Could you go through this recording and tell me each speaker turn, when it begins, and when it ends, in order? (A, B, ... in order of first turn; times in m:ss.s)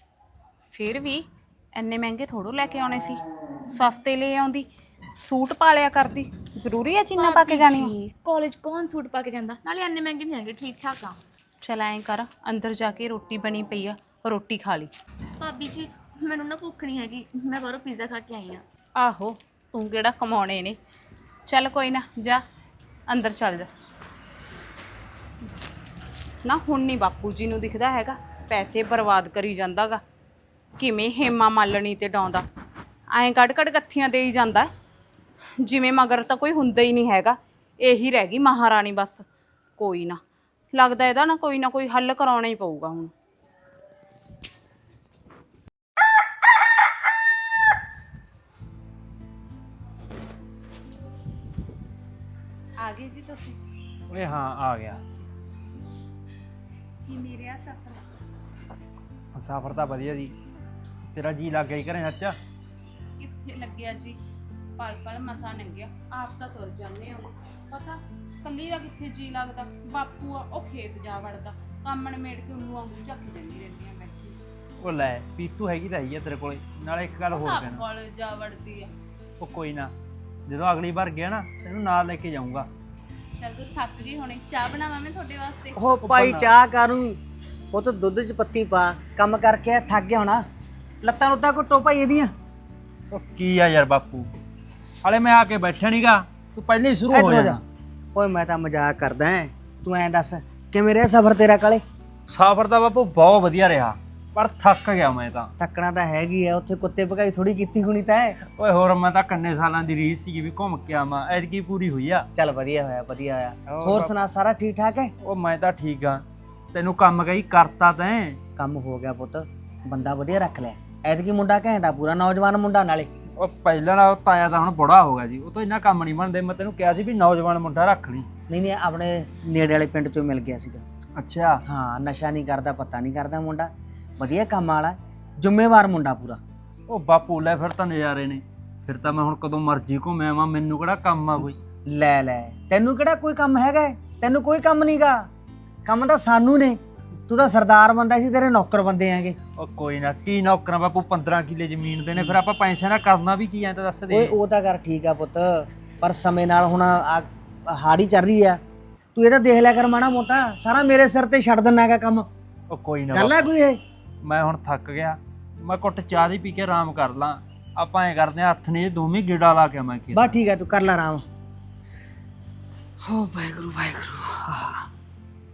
0:00.7-0:07.9 A
0:07.2-0:11.2 B
0:11.6-0:14.9 A
0:15.4-0:18.6 B
0:19.0-0:20.8 A
0:21.4-0:22.4 A
0:23.1-0:23.7 A
0:26.4-0:30.0 A
0:30.8-0:32.4 A
0:33.1-0:34.7 A
0:35.6-0:39.2 A
0:39.8-0:40.2 A
0:40.7-0:43.1 A
0:52.8-0:53.6 A
0:54.1-0:55.0 C
0:57.0-0:58.1 A
0:59.3-1:00.4 C
1:01.1-1:02.4 C
1:03.2-1:04.2 A
1:04.8-1:14.4 A
1:14.8-1:17.8 C
1:17.3-1:18.9 A
1:19.4-1:19.9 C
1:20.5-1:22.7 C
1:23.3-1:25.8 A
1:25.8-1:27.2 D
1:26.0-1:26.5 C
1:27.7-1:30.4 D
1:31.0-1:32.3 D
1:33.1-1:34.3 C
1:35.0-1:37.6 C
1:37.1-1:37.6 D
1:38.1-1:41.8 D
1:42.3-1:45.5 C
1:45.6-1:48.4 D
1:48.5-1:52.2 C
1:52.3-1:55.1 D
1:53.7-1:54.1 C
1:55.2-1:58.4 C
1:58.6-2:03.1 D
2:03.4-2:08.2 C
2:08.5-2:10.8 D
2:11.2-2:11.6 C
2:11.6-2:16.4 D
2:16.9-2:21.6 C
2:21.9-2:25.3 D
2:25.8-2:26.8 D
2:27.3-2:29.4 D
2:29.6-2:34.4 C
2:34.1-2:38.6 D
2:39.1-2:42.3 D
2:42.7-2:43.5 C
2:43.1-2:43.8 D
2:44.2-2:50.4 C
2:50.1-2:51.2 D
2:53.0-2:54.9 D